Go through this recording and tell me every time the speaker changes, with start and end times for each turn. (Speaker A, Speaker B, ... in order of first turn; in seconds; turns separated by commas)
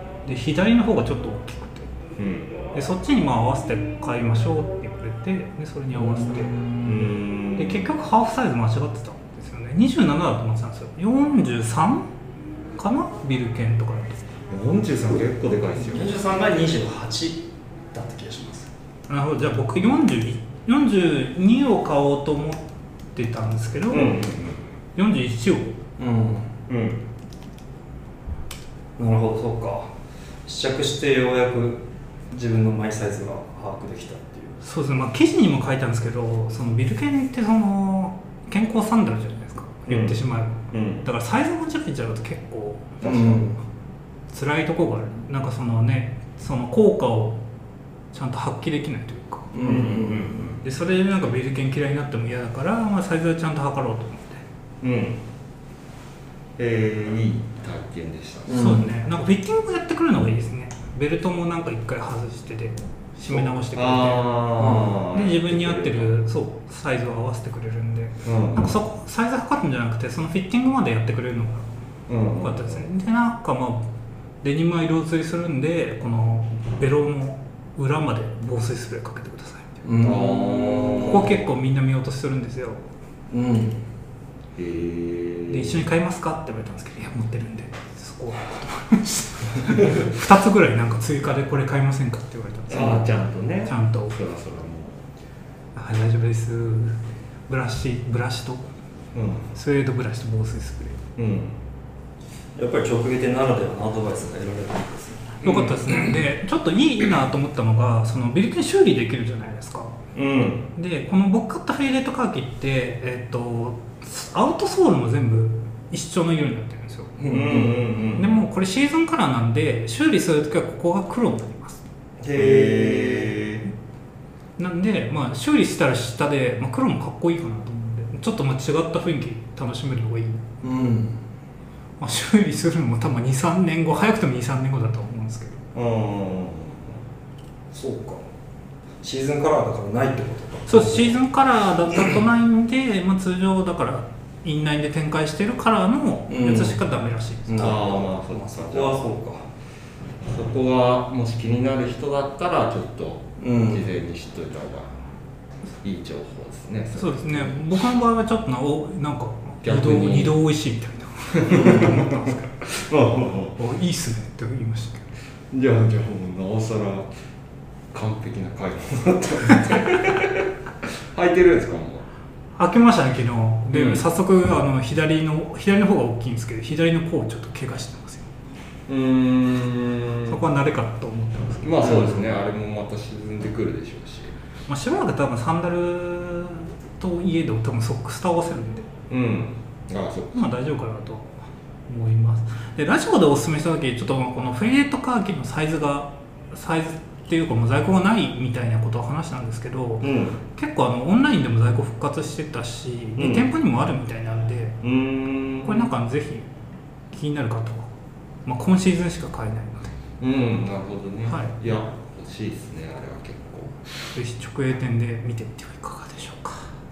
Speaker A: 0.2-1.9, Speaker B: 2.2-2.6, Speaker A: 2.7-6.5, Speaker C: 5.9-7.1, Speaker B: 6.8-8.0, Speaker A: 7.6-12.1, Speaker A: 12.8-14.2, Speaker B: 14.5-16.5, Speaker C: 15.8-18.7, Speaker A: 19.1-22.6, Speaker A: 23.1-24.2, Speaker B: 23.9-24.6, Speaker A: 24.9-25.7, Speaker C: 26.0-26.6, Speaker B: 26.7-27.0, Speaker C: 29.0-29.9, Speaker C: 30.4-34.6, Speaker A: 34.6-43.5, Speaker B: 39.9-40.2, Speaker B: 40.7-41.1, Speaker C: 43.0-43.6, Speaker A: 44.3-47.4, Speaker A: 48.1-49.7, Speaker C: 49.5-50.5, Speaker B: 49.6-50.6, Speaker A: 50.6-54.4, Speaker B: 54.8-55.2, Speaker B: 56.6-58.6, Speaker C: 58.5-58.9, Speaker A: 58.5-71.7, Speaker B: 63.3-66.1, Speaker C: 64.6-65.0, Speaker B: 68.2-68.8, Speaker B: 72.1-72.9, Speaker A: 72.2-73.9, Speaker A: 74.4-79.9, Speaker C: 79.8-81.3, Speaker B: 80.0-81.5, Speaker A: 80.9-82.8, Speaker C: 83.3-83.8, Speaker B: 84.6-85.8, Speaker A: 85.5-94.2, Speaker B: 92.7-95.0, Speaker A: 95.8-98.7, Speaker B: 99.1-99.5, Speaker A: 99.5-101.0, Speaker B: 101.2-101.6, Speaker C: 102.5-106.2, Speaker A: 105.4-110.0, Speaker B: 105.4-105.8, Speaker B: 110.1-110.7, Speaker A: 110.7-117.2, Speaker C: 117.2-117.8, Speaker B: 117.2-118.4, Speaker A: 118.2-121.8, Speaker B: 122.2-123.7, Speaker C: 122.3-123.3, Speaker A: 124.6-130.4, Speaker C: 130.6-131.2, Speaker A: 132.0-135.6, Speaker B: 135.7-137.0, Speaker C: 137.7-138.2, Speaker C: 139.0-141.2, Speaker A: 140.7-147.7, Speaker C: 146.3-146.8, Speaker C: 147.5-149.5, Speaker B: 147.6-149.1, Speaker B: 150.2-154.9, Speaker C: 153.4-153.9, Speaker B: 155.8-157.8, Speaker A: 156.9-162.7, Speaker B: 159.6-160.4, Speaker B: 161.3-162.0, Speaker B: 162.6-163.6, Speaker A: 163.6-165.1, Speaker B: 165.5-167.1, Speaker B: 167.9-172.0, Speaker A: 172.6-178.3, Speaker B: 173.7-174.1, Speaker B: 178.9-180.4, Speaker A: 180.3-182.2, Speaker B: 181.6-184.3, Speaker A: 184.7-188.9, Speaker B: 189.1-190.4, Speaker A: 190.3-191.3, Speaker A: 191.9-204.8, Speaker B: 200.0-200.4, Speaker B: 203.2-203.5, Speaker B: 204.8-205.9, Speaker A: 205.6-206.5, Speaker A: 207.1-207.9, Speaker A: 208.4-209.9, Speaker B: 210.2-213.8, Speaker A: 211.3-211.6, Speaker A: 214.1-216.7